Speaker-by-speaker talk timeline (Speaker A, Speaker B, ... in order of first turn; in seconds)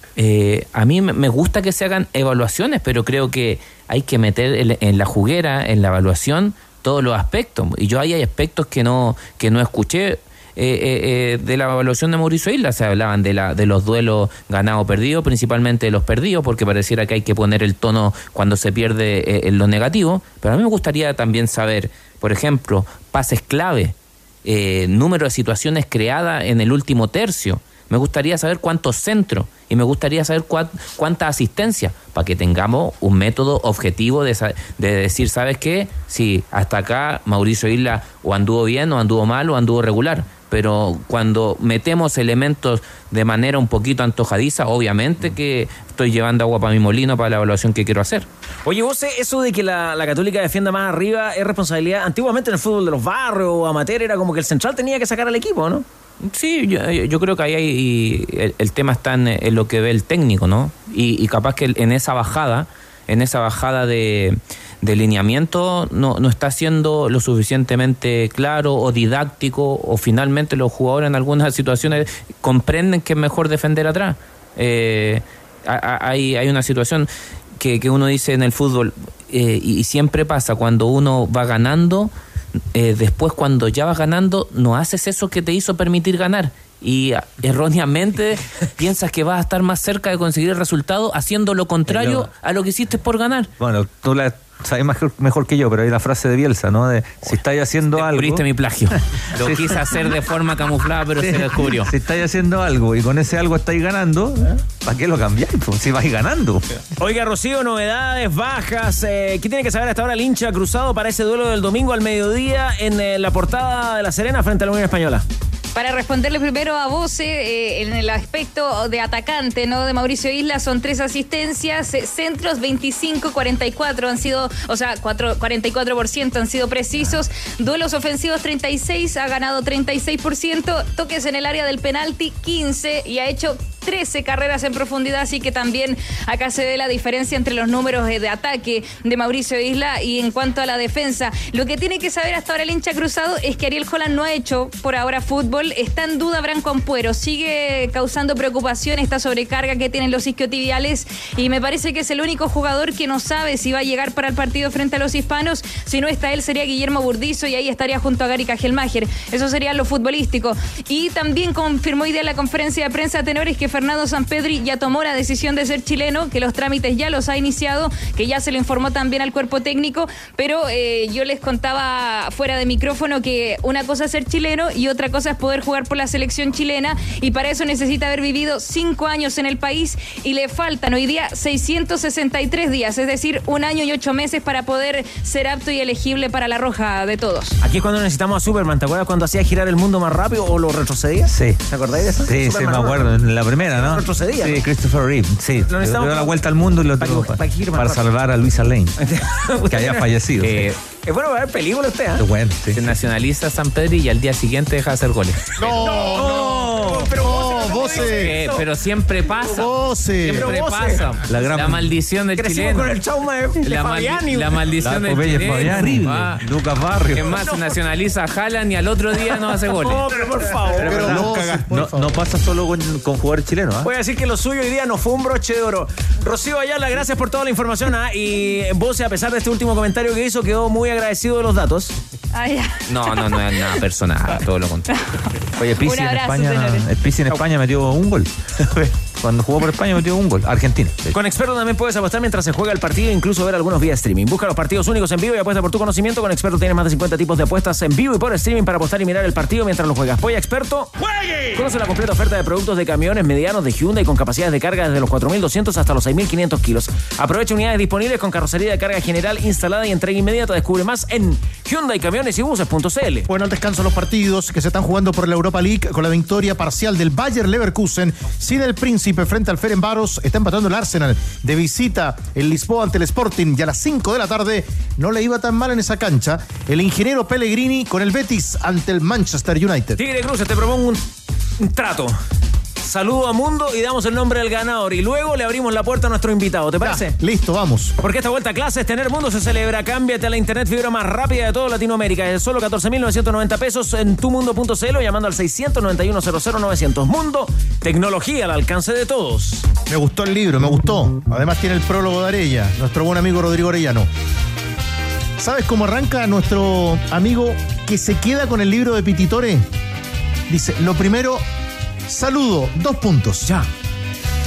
Speaker A: 0.1-23.9, 24.4-48.3, 56.2-77.1, 77.6-82.1, 82.7-93.5, 97.9-101.9, 200.4-200.8, 202.7-205.9, 208.1-213.0, 213.6-216.5, 217.1-220.1, 232.9-234.8
Speaker B: 48.6-55.8, 107.0-115.2, 187.6-193.2, 193.7-194.6, 195.7-196.4, 197.0-198.1, 199.0-200.1, 200.9-202.2, 205.7-209.6, 210.3-211.1, 212.3-214.6, 217.3-217.8, 219.3-221.3, 223.8-231.9, 241.1-263.3, 280.0-281.0, 281.6-282.1, 282.8-287.1, 288.0-299.7
Speaker C: 91.9-92.3, 93.6-98.4, 99.3-100.1, 101.2-106.7, 191.2-191.6, 192.2-199.0, 199.7-200.7, 202.2-202.9, 211.3-211.9, 214.8-217.3, 220.7-223.9, 235.6-238.3, 239.2-241.1
Speaker D: 115.7-187.6, 232.3-233.8, 234.9-235.3, 235.8-236.9
Speaker E: 205.6-208.4, 209.5-210.6, 220.7-222.3, 263.3-280.0, 286.8-287.9, 299.9-304.1, 305.4-309.6, 310.5-311.4, 312.1-313.5